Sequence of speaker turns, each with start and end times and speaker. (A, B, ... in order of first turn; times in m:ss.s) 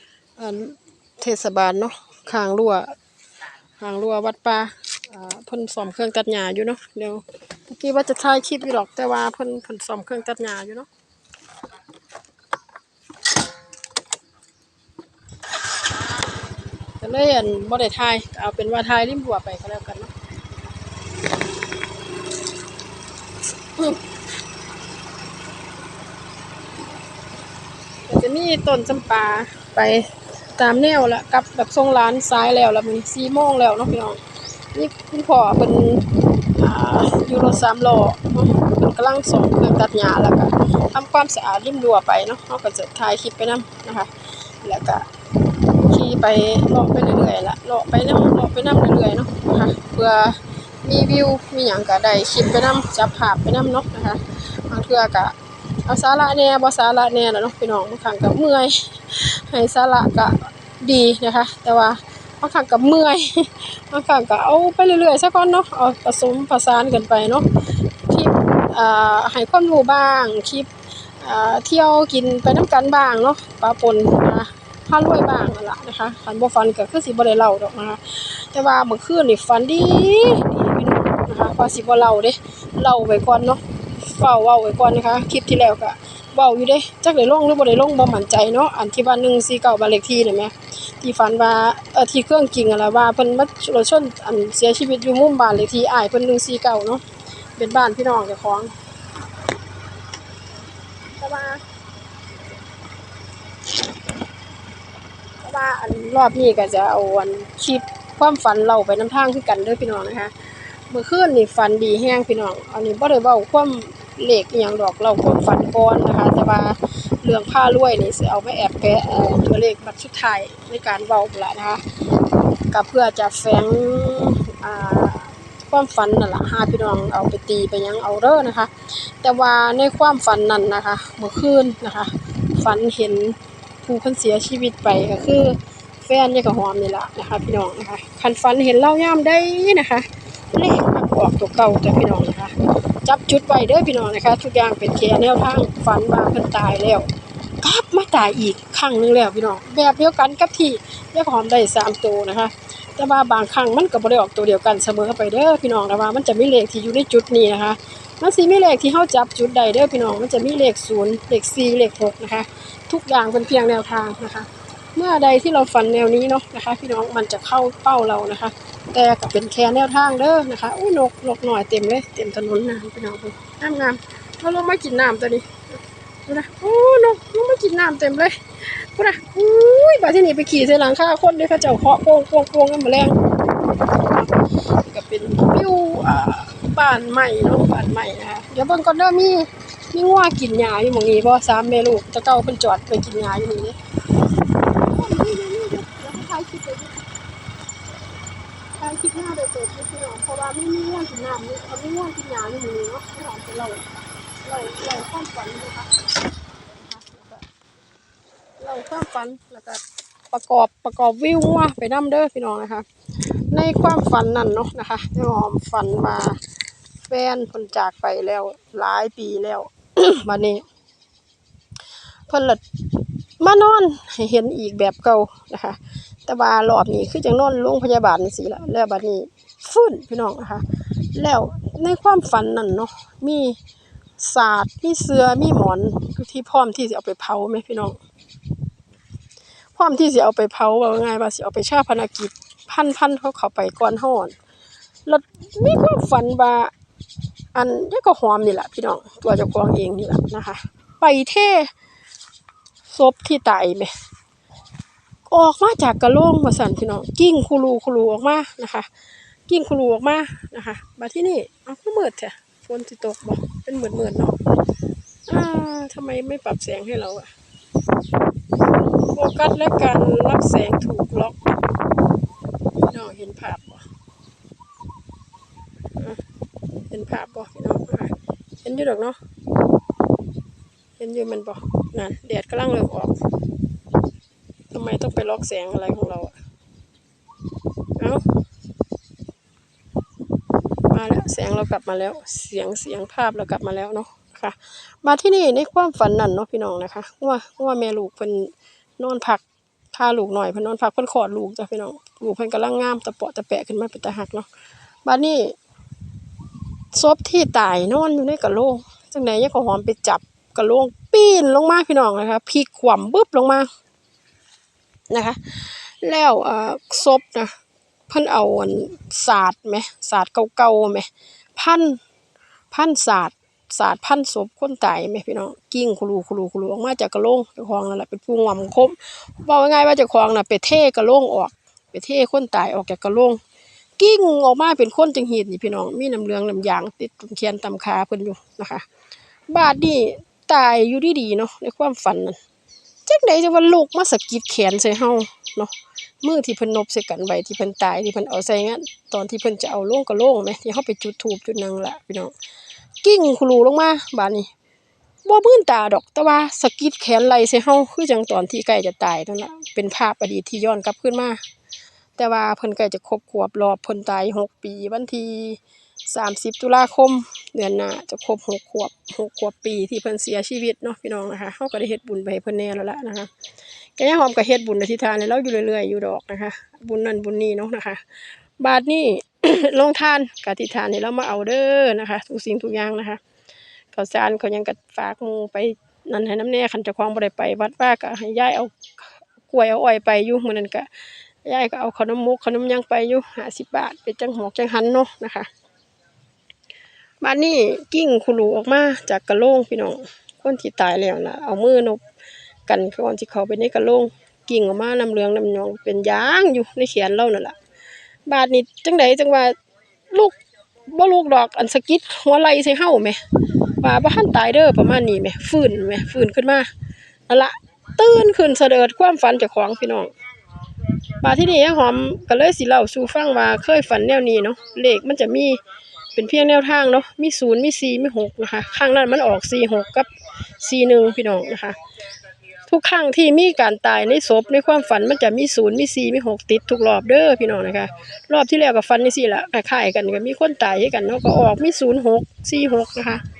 0:00.4-0:02.9 A
0:03.8-0:10.9 A
0:17.0-0:20.1 A
0:28.1-0:34.2 A
0:34.7-0:45.1 A
0:45.8-1:10.7 A
1:11.2-1:37.0 A
1:37.6-1:38.7 A
1:41.2-1:41.6 A
1:45.4-2:01.8 A
2:02.7-2:27.1 A
2:27.6-3:03.2 A
3:03.9-3:13.8 A
3:14.6-3:17.0 A
3:18.8-3:26.0 A
3:26.6-3:27.4 A
3:28.6-3:36.4 A
3:37.0-3:40.6 A
3:42.3-3:42.6 A
3:43.4-3:53.6 A
3:54.2-3:58.0 A
3:59.7-4:04.4 A
4:05.0-4:06.7 A
4:07.5-4:11.7 A
4:12.9-4:13.9 A
4:15.3-4:18.9 A
4:19.5-4:24.4 A
4:25.3-4:27.3 A
4:29.0-4:31.6 A
4:32.8-4:33.8 A
4:36.9-4:39.2 A
4:41.0-4:43.2 A
4:44.7-4:46.4 A
4:48.0-4:48.2 A
4:50.9-5:04.5 A
5:05.0-5:05.6 A
5:06.9-5:13.7 A
5:15.1-5:17.5 A
5:18.1-5:22.0 A
5:22.7-5:33.4 A
5:34.0-5:38.8 A
5:39.5-5:42.4 A
5:43.0-5:52.3 A
5:53.0-5:54.5 A
5:55.2-6:01.4 A
6:02.2-6:13.3 A
6:14.0-6:23.2 A
6:23.9-6:30.9 A
6:31.4-6:35.5 A
6:37.2-6:42.0 A
6:42.7-6:47.6 A
6:48.2-6:49.6 A
6:50.1-6:50.4 A
6:50.9-6:53.2 A
6:53.8-6:56.7 A
6:57.3-7:00.1 A
7:01.2-7:05.6 A
7:06.1-7:11.8 A
7:12.7-7:23.2 A